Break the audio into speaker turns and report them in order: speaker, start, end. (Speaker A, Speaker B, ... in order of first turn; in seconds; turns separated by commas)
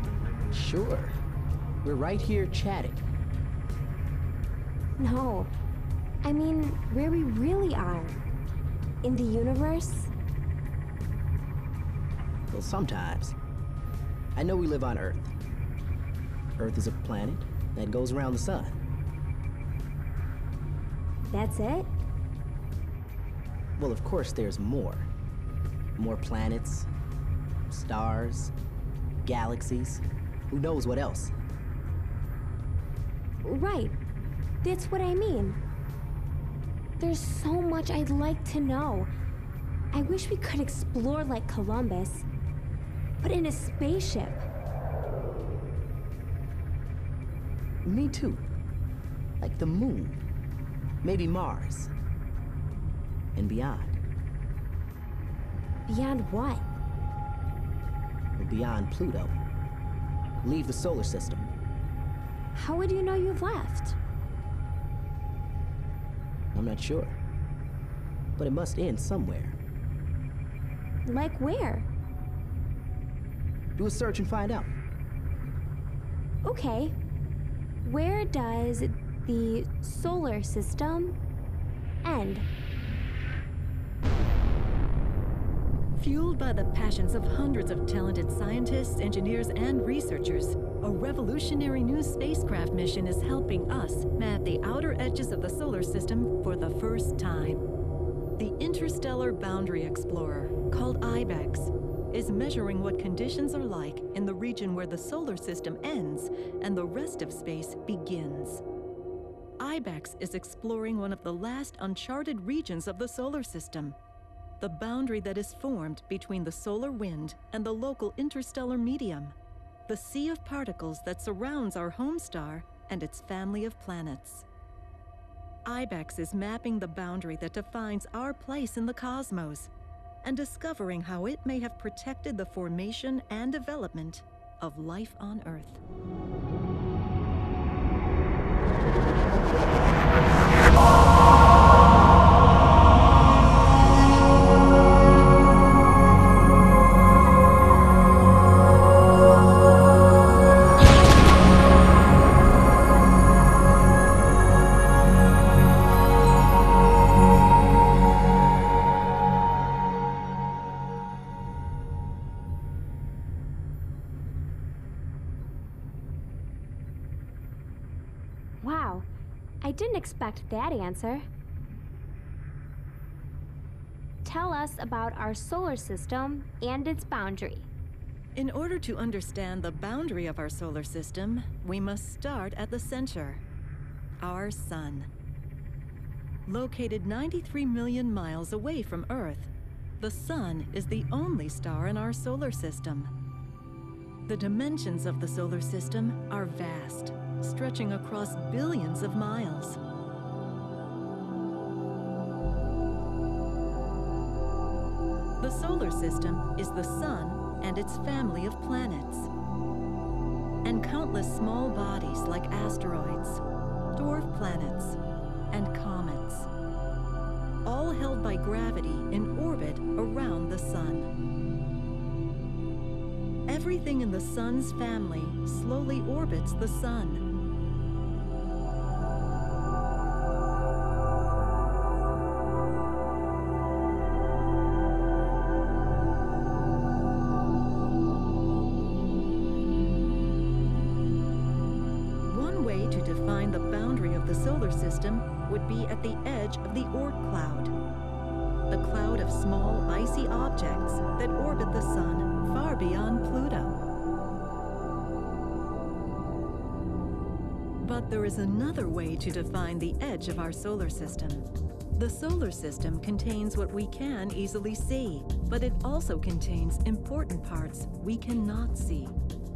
Speaker A: 0.5-1.1, Speaker A: 1.8-3.0, Speaker B: 5.0-5.5, Speaker B: 6.2-8.2, Speaker B: 9.0-10.1, Speaker A: 12.5-13.3, Speaker A: 14.3-15.3, Speaker A: 16.6-18.8, Speaker B: 21.3-21.9, Speaker A: 23.8-25.1, Speaker A: 26.0-26.9, Speaker A: 27.7-28.5, Speaker A: 29.2-31.3, Speaker B: 33.4-34.0, Speaker B: 34.6-35.6, Speaker B: 37.0-39.1, Speaker B: 39.9-42.3, Speaker B: 43.2-44.4, Speaker A: 47.8-48.5, Speaker A: 49.4-50.2, Speaker A: 51.0-51.9, Speaker A: 53.3-54.0, Speaker B: 55.9-56.6, Speaker A: 58.4-59.4, Speaker A: 60.4-61.5, Speaker B: 62.5-64.0, Speaker A: 66.5-67.2, Speaker A: 68.4-69.6, Speaker B: 71.0-71.9, Speaker A: 73.8-74.7, Speaker B: 76.4-77.0, Speaker B: 77.8-81.2, Speaker B: 82.0-82.5, Speaker C: 86.0-97.6, Speaker C: 98.4-108.6, Speaker C: 109.6-114.0, Speaker C: 114.6-119.3, Speaker C: 119.9-124.5, Speaker C: 125.7-129.7, Speaker C: 130.2-135.8, Speaker B: 168.6-169.1, Speaker B: 169.6-171.2, Speaker B: 174.2-177.7, Speaker C: 178.3-183.4, Speaker C: 184.2-185.1, Speaker C: 186.4-193.1, Speaker C: 194.2-199.8, Speaker C: 205.4-209.3, Speaker C: 210.6-213.4, Speaker C: 213.9-215.0, Speaker C: 215.5-216.5, Speaker C: 217.6-221.1, Speaker C: 223.5-227.2, Speaker C: 242.2-247.7, Speaker C: 248.7-253.8, Speaker C: 257.8-269.1